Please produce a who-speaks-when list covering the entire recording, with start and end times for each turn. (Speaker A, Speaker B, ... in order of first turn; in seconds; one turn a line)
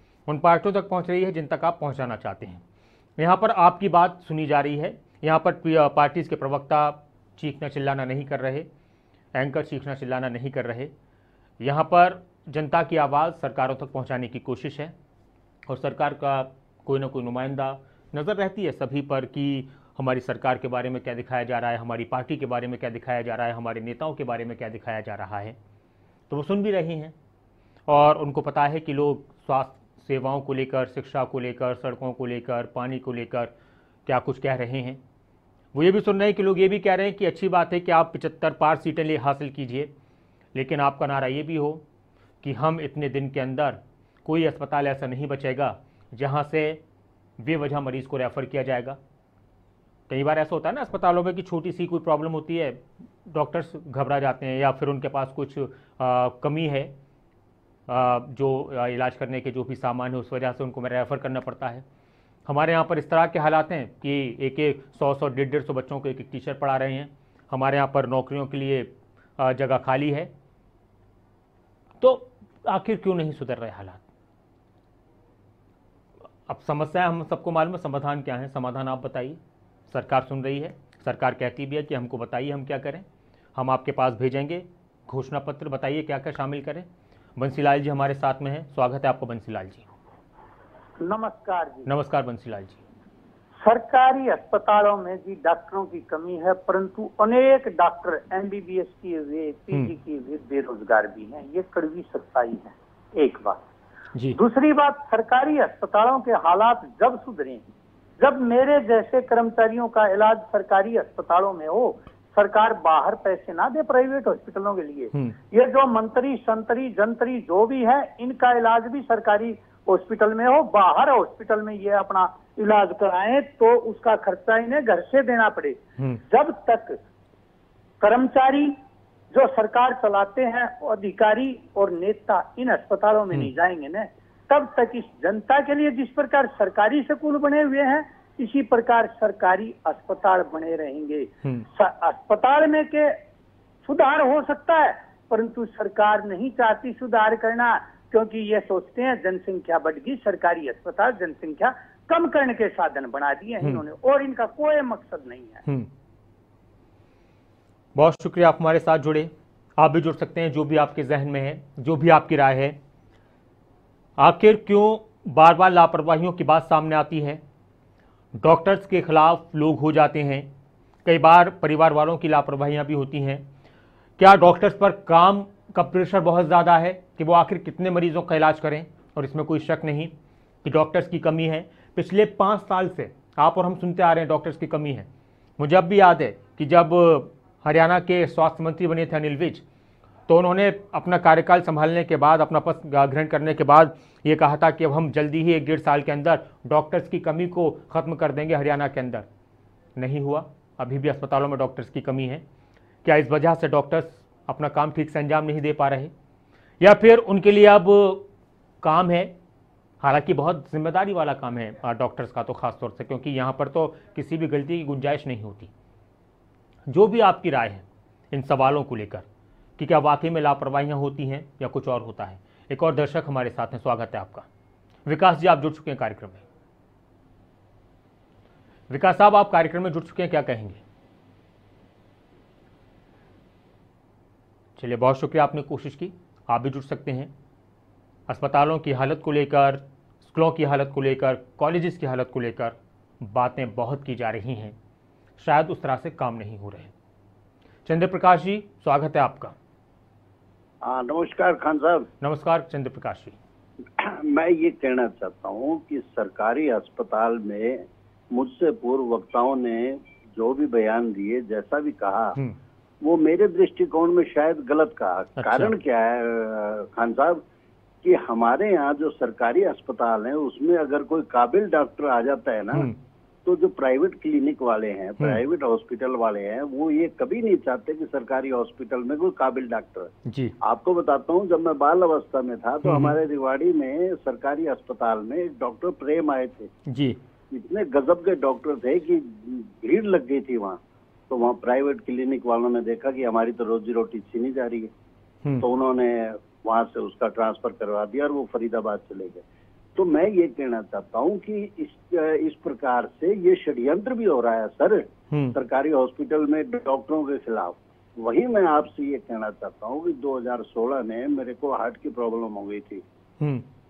Speaker A: 0.3-2.6
Speaker A: 3.2-8.7
Speaker A: 9.3-10.9
Speaker A: 11.6-14.9
Speaker A: 15.7-25.6
Speaker A: 26.3-27.1
Speaker A: 27.9-33.5
Speaker A: 34.0-35.0
Speaker A: 35.7-39.9
Speaker A: 40.5-41.8
Speaker A: 42.4-46.8
Speaker A: 47.4-49.0
Speaker A: 50.1-56.9
Speaker A: 57.9-61.8
Speaker A: 62.5-70.3
Speaker A: 72.0-74.0
Speaker A: 76.5-83.0
Speaker A: 83.5-89.9
Speaker B: 91.0-91.9
Speaker A: 91.8-92.8
Speaker B: 93.6-103.6
Speaker B: 104.3-107.6
Speaker B: 108.2-127.0
Speaker B: 128.0-128.7
Speaker B: 129.3-143.2
Speaker B: 143.8-155.6
Speaker A: 157.9-162.8
Speaker A: 164.2-167.4
Speaker A: 168.4-170.5
Speaker A: 171.0-173.4
Speaker A: 174.2-180.1
Speaker A: 180.6-185.1
Speaker A: 185.6-189.6
Speaker A: 190.3-199.2
Speaker A: 200.0-202.4
Speaker A: 203.0-206.1
Speaker A: 206.8-208.2
Speaker A: 208.8-209.3
Speaker A: 210.0-215.7
Speaker A: 216.9-219.2
Speaker A: 219.8-224.4
Speaker A: 225.1-226.4
Speaker A: 228.9-230.8
Speaker A: 234.8-237.3
Speaker A: 238.3-244.8
Speaker A: 245.4-246.9
Speaker A: 247.8-249.5
Speaker C: 250.8-252.1
Speaker A: 252.2-253.3
Speaker C: 254.0-262.4
Speaker C: 263.0-267.4
Speaker A: 265.4-265.7
Speaker C: 268.0-272.9
Speaker C: 273.4-280.1
Speaker A: 280.2-280.5
Speaker C: 280.6-286.7
Speaker A: 282.8-283.2
Speaker A: 286.9-287.2
Speaker C: 287.5-290.8
Speaker C: 291.3-294.9
Speaker C: 295.6-299.4
Speaker C: 299.9-313.0
Speaker A: 305.3-305.6
Speaker A: 313.4-313.6